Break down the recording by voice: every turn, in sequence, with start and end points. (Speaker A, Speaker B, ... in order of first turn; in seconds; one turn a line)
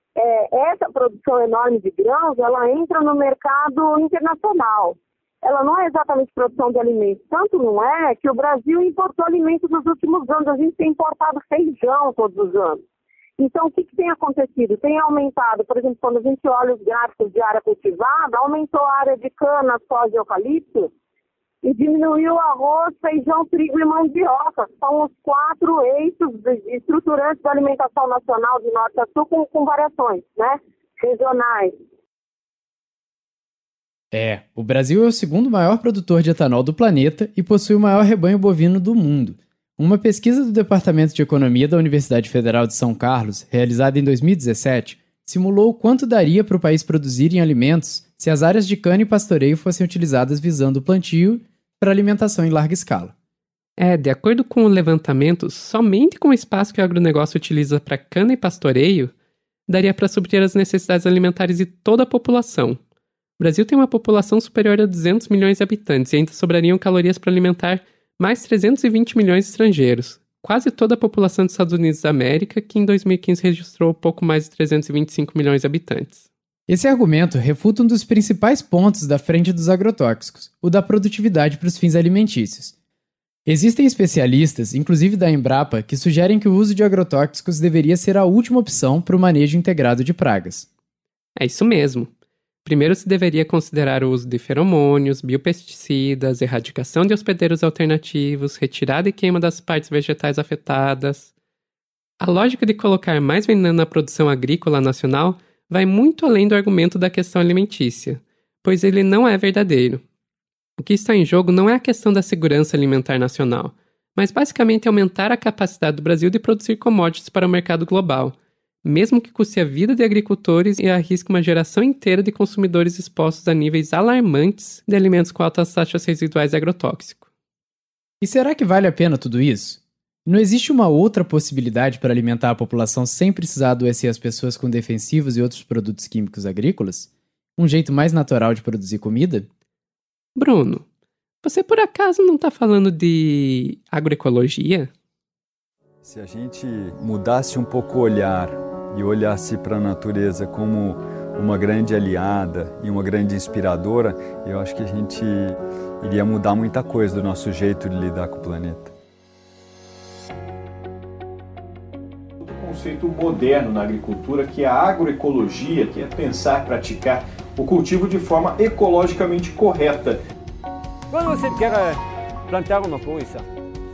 Speaker A: 0.2-12.8
Speaker A: 13.4-20.9
Speaker A: 21.6-31.7
Speaker B: 34.1-53.1
Speaker C: 53.8-59.1
Speaker C: 59.7-62.8
Speaker C: 63.4-76.2
Speaker B: 76.7-82.7
Speaker B: 83.5-90.7
Speaker C: 91.3-92.1
Speaker C: 92.6-101.3
Speaker C: 102.2-110.0
Speaker C: 110.8-127.3
Speaker B: 128.2-139.5
Speaker C: 140.3-140.8
Speaker C: 141.4-144.9
Speaker D: 146.0-158.9
Speaker E: 162.7-170.2
Speaker F: 171.1-173.4